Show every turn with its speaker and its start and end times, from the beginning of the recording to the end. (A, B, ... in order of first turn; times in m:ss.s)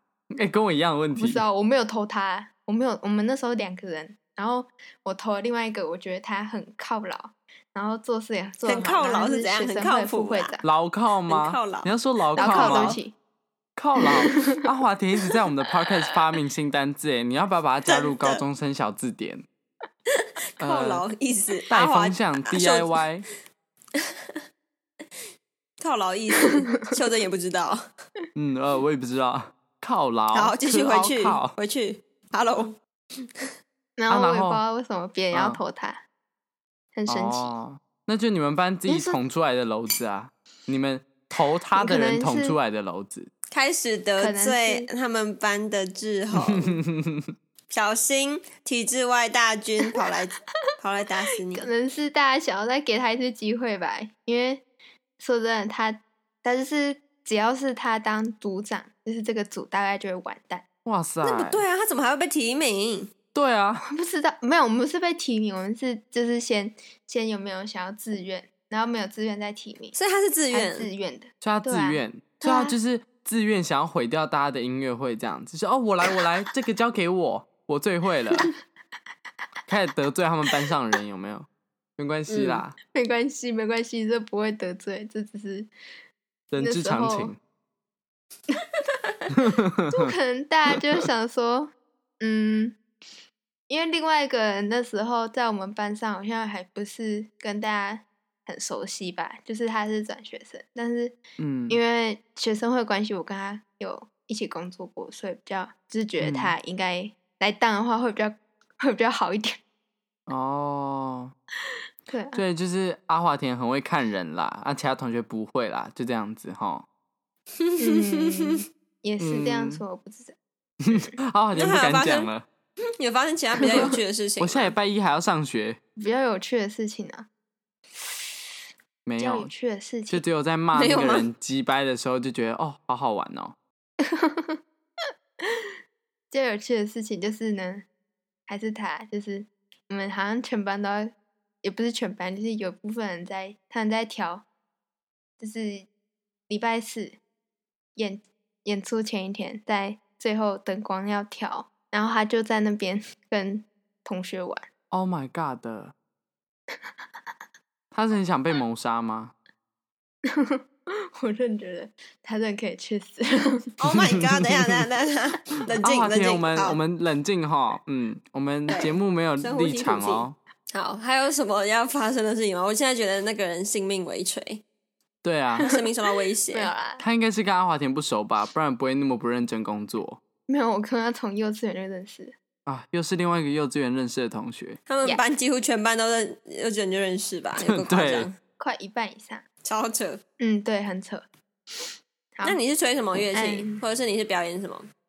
0:00.3-0:01.4 A
0:01.2-0:10.6 B
0:08.6-0:10.6 C
0:10.6-0:13.0 A
0:11.3-0:13.0 C
0:12.4-0:13.2 B
0:13.8-0:19.5 A
0:14.1-0:14.4 B
0:17.9-0:18.4 C
0:20.1-0:23.0 C
0:20.6-0:21.0 A
0:21.7-0:23.3 A
0:24.0-0:24.4 C
0:25.8-0:27.9 C
0:28.4-0:31.5 A
0:30.3-0:33.5 C
0:34.0-0:36.0 B
0:34.1-0:34.6 A
0:35.3-0:35.6 A
0:37.0-0:37.5 B
0:37.1-0:43.3 A
0:38.9-0:39.2 B
0:41.8-0:42.6 B
0:43.5-0:46.8 C
0:44.2-0:44.9 B
0:46.3-0:47.3 A
0:47.7-0:51.7 C
0:49.9-0:50.2 B
0:51.6-0:54.6 B
0:55.2-1:00.6 B
1:00.8-1:01.6 A
1:01.2-1:03.1 C
1:03.3-1:03.9 A
1:03.9-1:09.9 B
1:09.9-1:10.9 C
1:10.5-1:12.0 B
1:11.4-1:18.5 A
1:12.4-1:12.8 C
1:19.7-1:22.8 A
1:22.3-1:22.6 C
1:22.8-1:25.7 B
1:26.5-1:27.4 A
1:26.6-1:27.3 B
1:28.9-1:29.1 C
1:29.3-1:30.1 A
1:29.9-1:32.8 B
1:33.7-1:41.2 B
1:41.4-1:41.8 A
1:41.7-1:49.6 B
1:46.2-1:46.6 A
1:50.3-1:51.3 A
1:52.1-1:52.4 B
1:52.4-1:56.8 A
1:57.6-1:58.6 C
1:57.8-2:00.4 B
1:59.2-1:59.8 A
2:00.8-2:02.5 A
2:01.6-2:02.3 C
2:03.0-2:04.7 C
2:03.7-2:04.0 B
2:04.4-2:05.8 A
2:06.0-2:07.3 B
2:07.9-2:08.5 B
2:09.1-2:09.5 A
2:09.2-2:10.2 B
2:10.1-2:13.6 A
2:10.7-2:11.3 C
2:14.0-2:14.6 B
2:15.4-2:15.7 B
2:16.3-2:17.9 B
2:18.5-2:24.4 B
2:25.4-2:25.9 B
2:26.5-2:27.2 B
2:28.0-2:34.7 B
2:34.9-2:35.9 A
2:37.9-2:39.3 A
2:40.2-2:43.7 B
2:43.8-2:46.8 C
2:43.9-2:44.8 A
2:45.8-2:50.4 A
2:48.7-2:54.6 C
2:55.2-2:55.7 A
2:55.7-2:56.7 C
2:56.5-2:57.0 B
2:57.0-3:00.2 A
3:00.5-3:02.4 B
3:02.7-3:04.8 A
3:04.9-3:08.4 C
3:07.7-3:08.3 A
3:08.6-3:09.4 B
3:09.6-3:10.2 C
3:10.4-3:12.6 B
3:12.4-3:14.9 C
3:13.3-3:13.8 B